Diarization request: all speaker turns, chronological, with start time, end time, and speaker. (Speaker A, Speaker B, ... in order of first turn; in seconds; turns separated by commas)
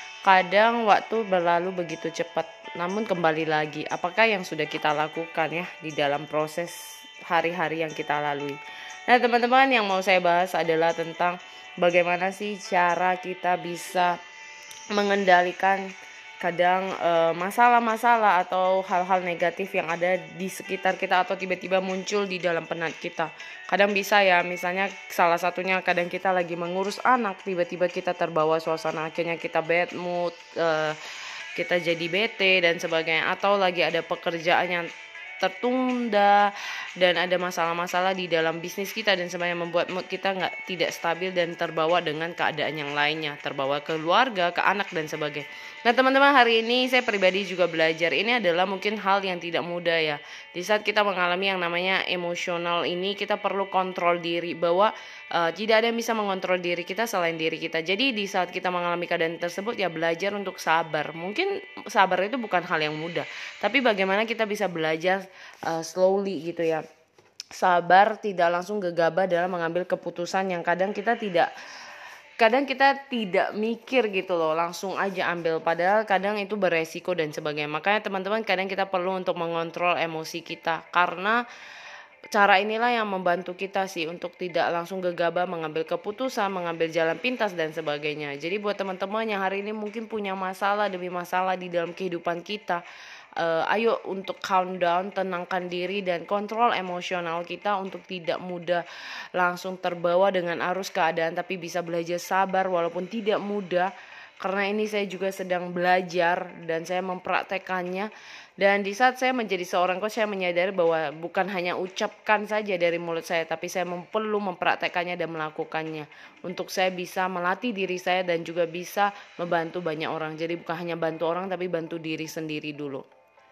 Speaker A: 0.2-14.2, Speaker A: 14.9-31.0, Speaker A: 31.6-66.8, Speaker A: 67.5-71.5, Speaker A: 72.4-81.4, Speaker A: 82.3-92.8, Speaker A: 93.4-98.8, Speaker A: 99.4-123.0